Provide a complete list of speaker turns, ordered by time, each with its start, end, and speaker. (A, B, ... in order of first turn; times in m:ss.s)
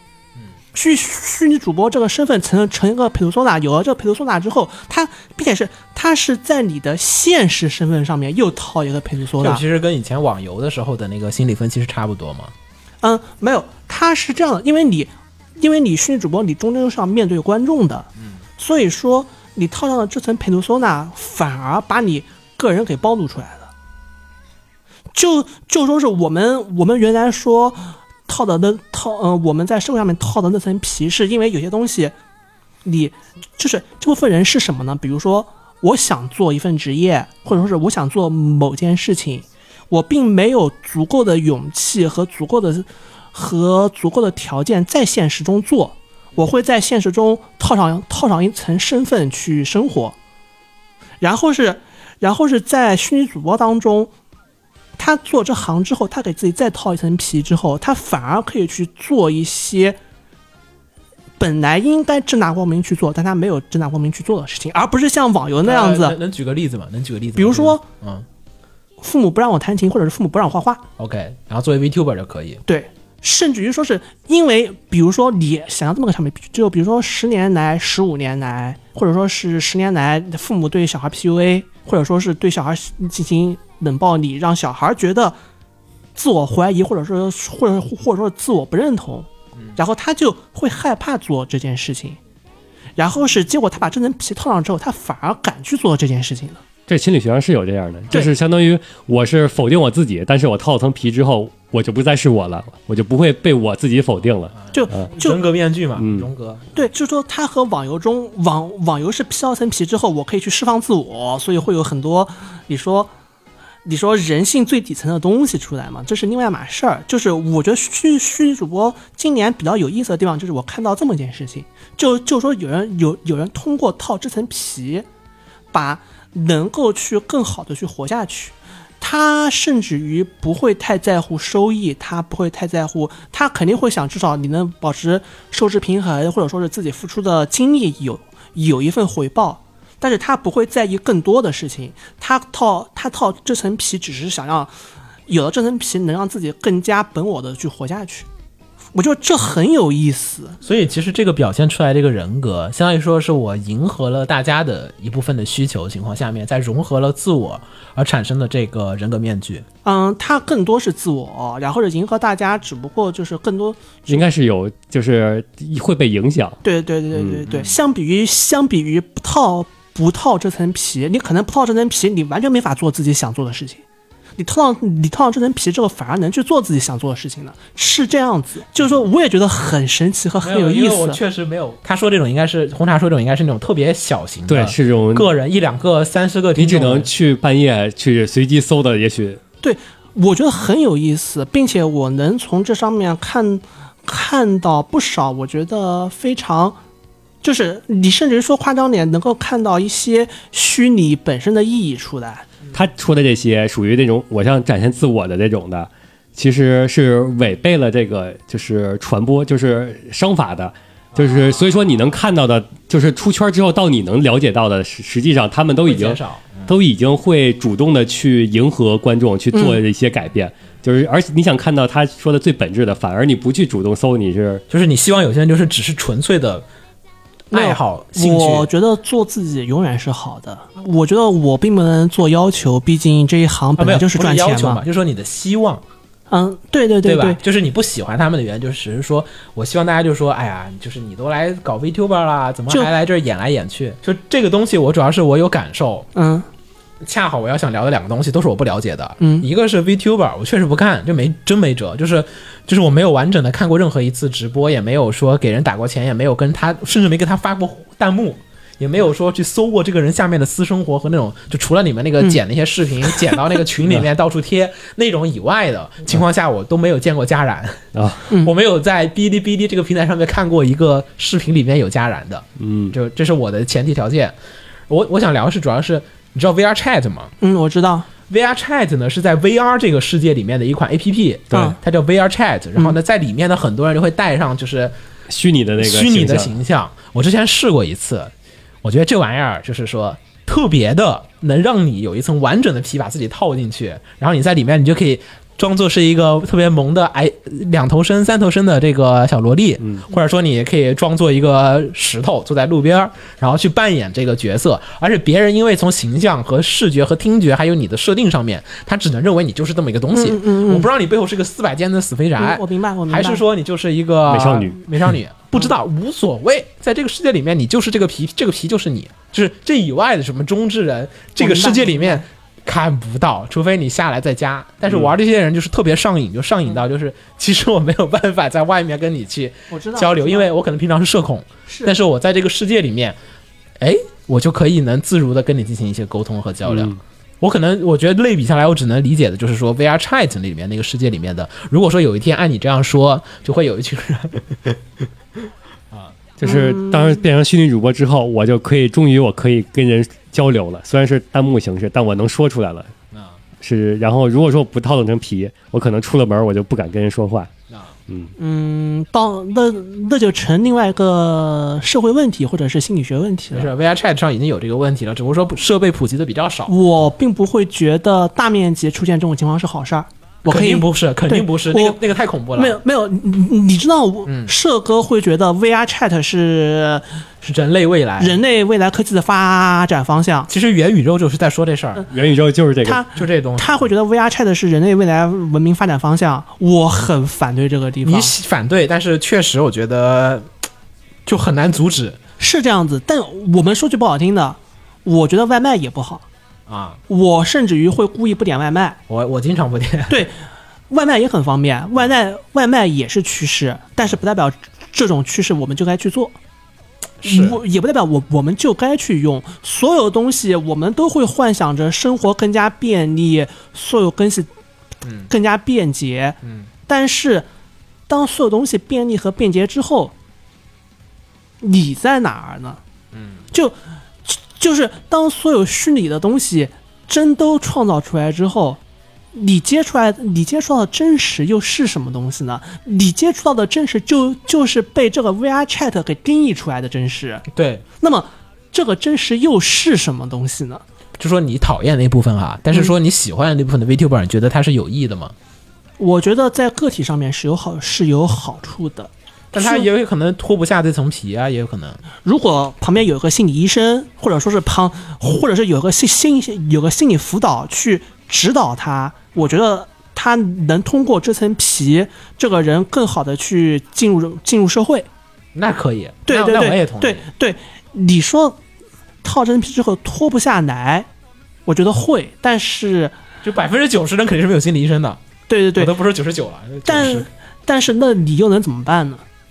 0:00.7-0:09.6 A
0:09.4-0:12.5 B
0:13.0-0:23.7 A
0:25.1-0:32.1 A
0:32.8-0:50.1 A
0:51.2-0:54.1 A
0:55.0-1:00.0 A
1:01.4-1:06.2 A
1:05.6-1:08.2 B
1:07.4-1:07.8 A
1:09.0-1:10.8 A
1:11.0-1:12.6 B
1:12.6-1:25.4 A
1:26.2-1:32.2 A
1:33.0-1:36.6 A
1:36.9-1:45.1 C
1:44.7-1:45.4 A
1:45.0-1:46.8 B
1:46.0-1:46.3 C
1:46.7-1:53.1 A
1:53.8-2:05.0 A
2:05.7-2:24.7 A
2:25.3-2:28.3 A
2:28.9-2:30.6 A
2:30.6-2:39.6 B
2:39.8-2:44.2 A
2:44.1-2:46.6 C
2:46.6-2:53.8 A
2:47.2-2:47.4 C
2:54.4-3:01.2 A
3:00.4-3:07.1 B
3:04.5-3:05.3 C
3:06.6-3:09.4 C
3:09.6-3:16.8 A
3:17.4-3:22.4 A
3:22.7-3:44.6 C
3:31.2-3:31.8 B
3:35.8-3:36.7 B
3:39.5-3:39.8 A
3:44.7-3:46.6 B
3:47.5-3:48.7 B
3:47.5-3:54.8 A
3:53.8-3:55.8 B
3:56.3-3:57.4 A
3:57.0-4:06.1 B
4:06.1-4:06.4 A
4:07.0-4:34.3 B
4:09.2-4:09.4 A
4:23.1-4:23.4 A
4:27.9-4:28.2 C
4:32.6-4:32.9 C
4:34.9-4:37.3 B
4:37.4-4:38.1 A
4:38.3-4:44.9 B
4:45.3-4:46.5 C
4:45.8-4:48.3 B
4:48.8-5:33.2 B
5:10.1-5:10.9 A
5:12.4-5:13.4 A
5:14.3-5:14.8 C
5:21.4-5:22.2 A
5:29.7-5:30.5 A
5:31.7-5:31.9 A
5:33.8-5:44.8 B
5:36.7-5:37.0 C
5:45.9-5:46.3 B
5:46.4-5:52.9 C
5:46.4-5:47.2 A
5:53.1-5:53.4 B
5:53.6-5:57.5 C
5:58.1-5:58.3 C
5:58.4-6:03.7 A
6:03.5-6:06.7 B
6:06.7-6:12.0 A
6:10.4-6:12.8 B
6:12.5-6:17.0 A
6:14.2-6:14.5 B
6:17.4-6:18.4 B
6:18.2-6:20.5 A
6:20.5-6:22.0 B
6:22.1-6:23.0 C
6:22.8-6:28.3 A
6:23.2-6:23.8 B
6:28.0-6:30.5 B
6:31.2-6:32.2 B
6:32.4-6:36.2 A
6:36.7-6:37.0 B
6:37.1-6:39.0 A
6:39.1-6:40.2 B
6:40.9-6:46.4 A
6:47.2-6:47.6 B
6:47.2-6:54.5 A
6:55.0-6:55.3 B
6:55.3-6:57.5 A
6:56.4-6:56.7 B
6:58.1-7:00.1 A
7:01.6-7:02.8 A
7:03.1-7:03.4 B
7:03.5-7:08.8 A
7:09.3-7:17.5 A
7:17.5-7:17.8 B
7:18.0-7:20.8 A
7:21.2-7:25.3 B
7:26.0-7:29.9 A
7:29.5-7:32.0 B
7:32.2-7:45.1 A
7:45.5-7:47.2 B
7:46.3-7:48.6 A
7:49.2-7:51.1 A
7:51.7-7:53.1 A
7:53.4-7:55.2 B
7:55.5-7:55.9 A
7:55.8-7:57.3 B
7:56.8-7:59.2 A